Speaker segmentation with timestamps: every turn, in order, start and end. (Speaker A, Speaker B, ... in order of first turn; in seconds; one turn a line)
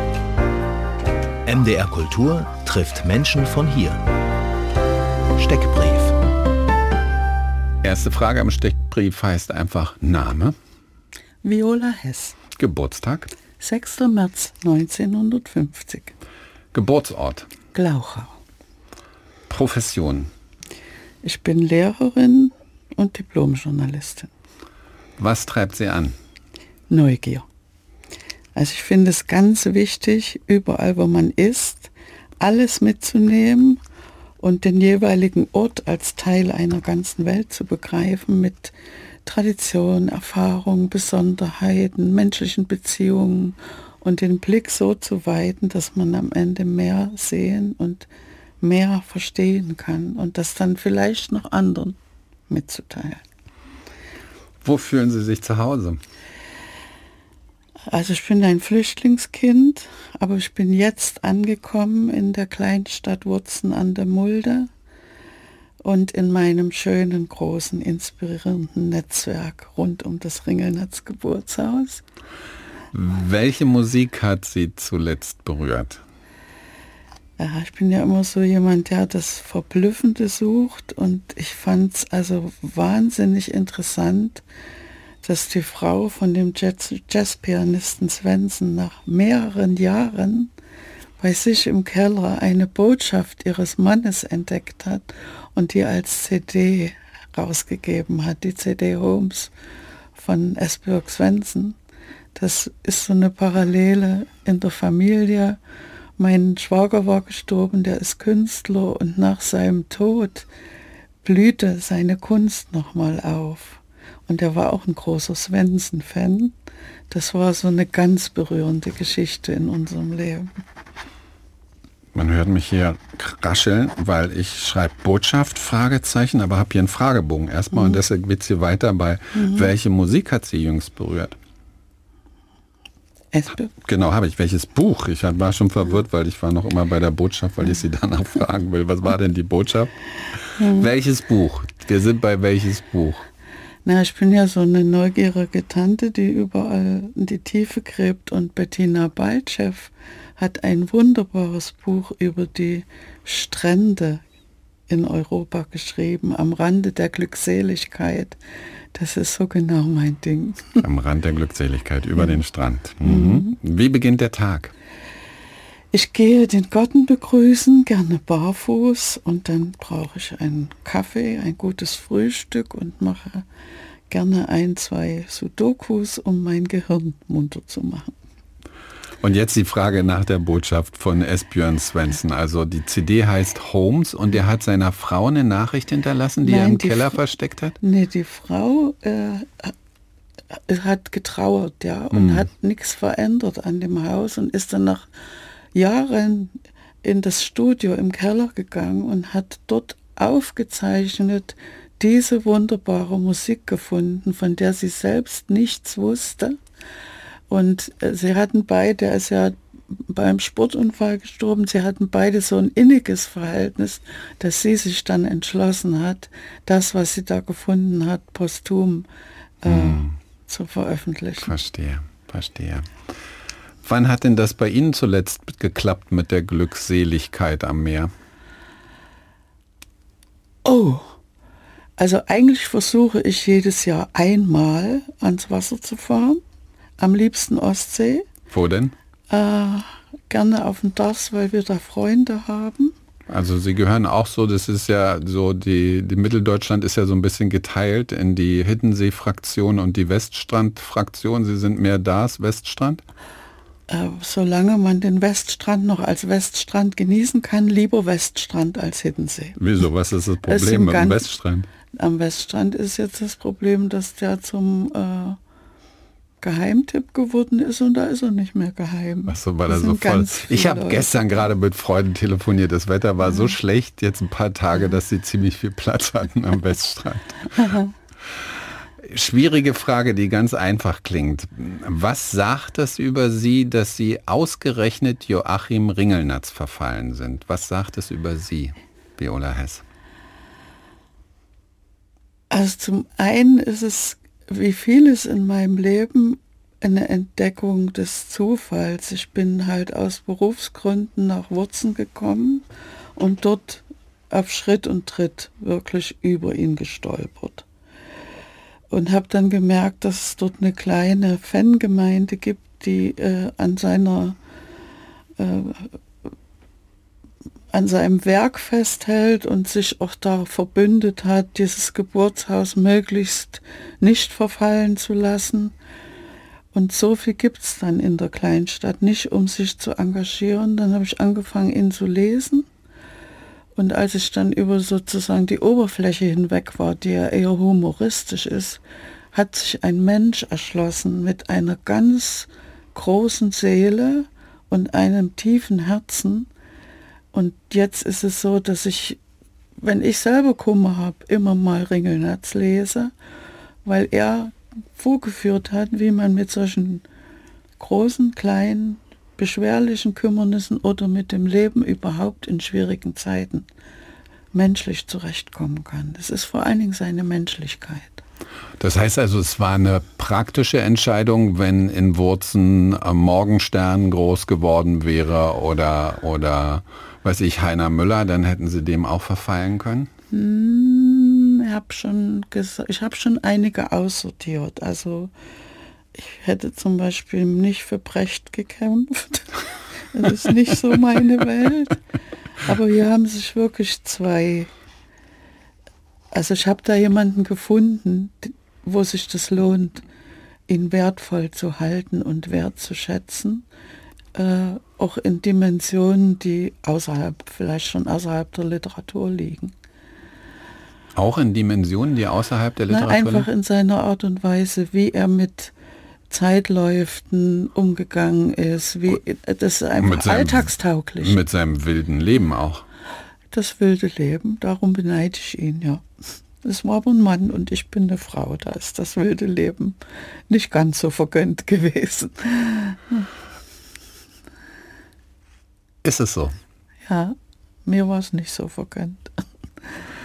Speaker A: 1.4-4.0
Speaker A: 5.3-6.2
Speaker B: 7.8-10.6
Speaker C: 11.4-12.4
Speaker B: 12.6-13.3
Speaker C: 13.6-16.1
Speaker B: 16.7-17.5
Speaker C: 17.7-18.3
Speaker B: 19.5-20.3
Speaker C: 21.2-24.3
Speaker B: 25.2-26.1
Speaker C: 26.9-27.4
Speaker C: 28.6-33.8
Speaker C: 34.4-38.7
Speaker C: 39.2-48.1
Speaker C: 48.6-52.0
Speaker C: 52.5-53.2
Speaker B: 54.6-56.0
Speaker C: 57.9-64.7
Speaker C: 65.8-72.0
Speaker B: 72.9-76.0
Speaker C: 77.4-84.4
Speaker C: 85.2-90.5
Speaker C: 91.2-99.5
Speaker C: 100.2-101.8
Speaker C: 102.3-105.6
Speaker C: 106.2-110.5
Speaker C: 111.2-116.5
Speaker C: 117.1-120.5
Speaker B: 122.1-131.3
Speaker C: 129.4-129.7
Speaker C: 133.3-133.7
Speaker B: 133.8-143.2
Speaker C: 140.6-140.9
Speaker C: 143.8-154.2
Speaker C: 154.9-158.4
Speaker C: 158.9-160.8
Speaker B: 160.8-164.7
Speaker C: 163.0-163.5
Speaker C: 165.9-173.4
Speaker C: 174.1-178.1
Speaker B: 179.2-187.8
Speaker C: 186.4-187.2
Speaker C: 187.8-189.7
Speaker C: 190.5-195.1
Speaker B: 192.1-192.5
Speaker C: 195.7-206.6
Speaker C: 207.5-219.1
Speaker C: 219.6-221.5
Speaker B: 219.6-220.2
Speaker B: 221.4-222.9
Speaker B: 223.8-228.1
Speaker C: 230.6-231.2
Speaker C: 232.0-236.4
Speaker C: 237.0-238.3
Speaker B: 238.5-238.9
Speaker C: 239.3-242.9
Speaker B: 243.3-253.0
Speaker C: 253.9-259.6
Speaker B: 259.6-261.7
Speaker C: 260.4-261.3
Speaker C: 261.9-265.4
Speaker C: 266.4-271.1
Speaker B: 269.3-277.8
Speaker C: 277.6-277.9
Speaker B: 279.0-289.8
Speaker C: 292.5-302.6
Speaker C: 303.1-307.6
Speaker C: 308.9-314.4
Speaker C: 315.4-315.9
Speaker C: 317.7-325.7
Speaker C: 326.7-332.7
Speaker C: 333.8-338.8
Speaker C: 339.3-346.5
Speaker C: 347.3-349.2
Speaker C: 349.8-353.1
Speaker C: 353.8-357.0
Speaker C: 357.8-363.7
Speaker C: 364.5-368.2
Speaker B: 368.8-380.1
Speaker C: 380.3-385.3
Speaker C: 386.1-392.0
Speaker C: 392.6-394.7
Speaker C: 396.3-400.0
Speaker C: 400.7-403.6
Speaker C: 404.3-409.7
Speaker B: 411.1-413.5
Speaker C: 412.9-415.7
Speaker C: 416.3-421.4
Speaker B: 420.0-422.8
Speaker C: 423.5-426.0
Speaker C: 426.6-430.0
Speaker C: 430.5-433.3
Speaker B: 436.0-436.6
Speaker C: 437.1-439.2